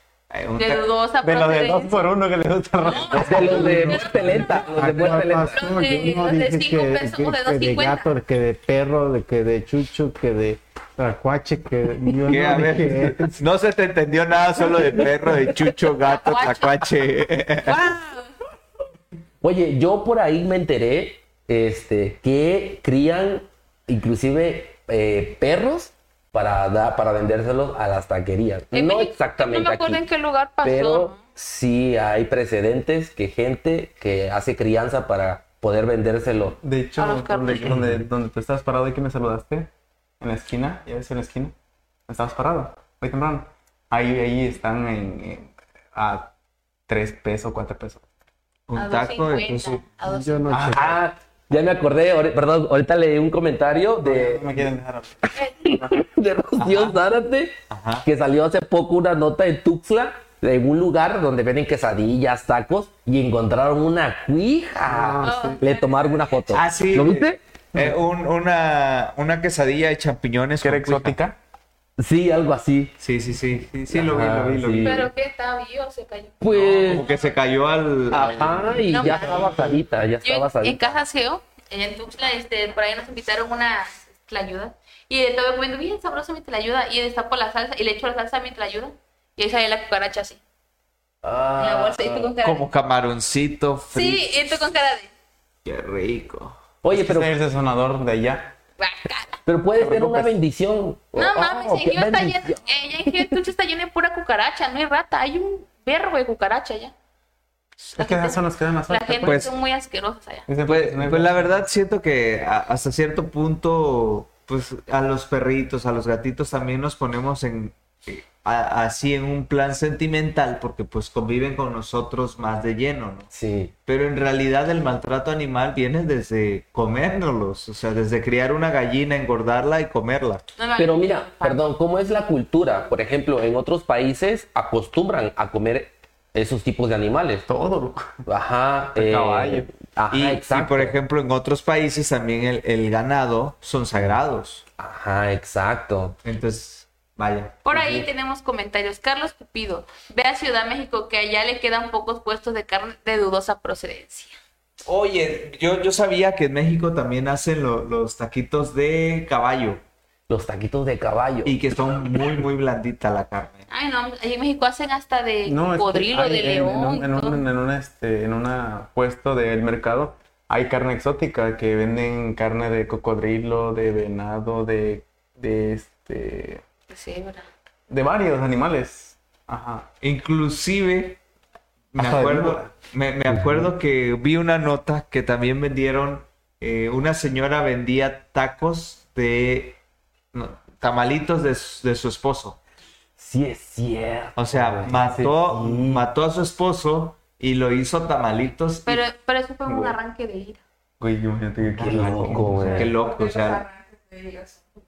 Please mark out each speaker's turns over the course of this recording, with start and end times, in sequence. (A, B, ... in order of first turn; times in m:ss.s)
0:00.3-0:00.9 A
0:00.6-0:02.1 B
0:01.2-0:04.2 C
0:02.8-0:04.6 B
0:03.2-0:05.6 D
0:03.4-0:13.4 E
0:05.5-0:08.1 B
0:12.3-0:17.8 A
0:16.2-0:16.8 B
0:17.8-0:18.2 F
0:19.4-0:30.0 D
0:28.7-0:31.2 B
0:30.6-0:36.6 D
0:36.6-0:41.5 C
0:37.0-0:37.8 B
0:42.1-0:46.3 C
0:46.9-0:48.0 C
0:48.7-0:49.9 A
0:48.8-0:50.7 B
0:50.0-0:51.0 E
0:50.6-0:54.5 D
0:54.0-0:56.0 C
0:55.6-1:07.4 D
0:56.6-0:57.0 A
0:57.7-0:58.1 A
1:04.9-1:05.6 E
1:05.2-1:06.3 B
1:06.5-1:11.2 A
1:10.6-1:11.4 C
1:12.0-1:12.9 D
1:13.0-1:15.1 A
1:13.9-1:15.0 D
1:14.8-1:17.2 B
1:16.4-1:17.0 D
1:16.7-1:19.5 A
1:18.1-1:21.0 D
1:18.9-1:19.5 B
1:20.2-1:30.4 B
1:31.2-1:32.3 D
1:31.6-1:32.7 B
1:32.4-1:34.3 A
1:33.9-1:35.1 B
1:35.6-1:36.6 A
1:36.8-1:37.3 D
1:36.9-1:38.5 C
1:38.8-1:39.4 B
1:39.4-1:43.3 D
1:39.8-1:40.4 C
1:41.1-1:46.9 B
1:47.8-1:50.5 B
1:48.0-1:49.4 C
1:49.2-1:49.5 A
1:50.5-1:51.6 C
1:50.6-2:03.3 A
2:03.3-2:03.7 D
2:03.8-2:10.4 A
2:10.6-2:11.8 B
2:10.8-2:17.5 D
2:17.5-2:18.1 C
2:18.2-2:21.0 D
2:18.9-2:19.7 C
2:20.1-2:24.6 A
2:24.8-2:26.2 D
2:26.2-2:27.6 A
2:27.6-2:34.3 B
2:27.7-2:28.0 D
2:34.8-2:39.8 A
2:40.3-2:41.6 D
2:41.4-2:43.6 A
2:43.7-2:47.4 B
2:45.4-2:56.6 C
2:56.9-2:57.5 B
2:57.9-2:59.9 C
3:00.0-3:01.2 A
3:01.9-3:09.8 A
3:02.0-3:02.7 C
3:10.3-3:12.6 A
3:13.2-3:16.0 D
3:14.4-3:19.0 A
3:15.0-3:15.2 C
3:18.8-3:20.6 B
3:21.0-3:22.9 C
3:21.8-3:22.9 D
3:22.6-3:23.6 A
3:22.9-3:24.6 F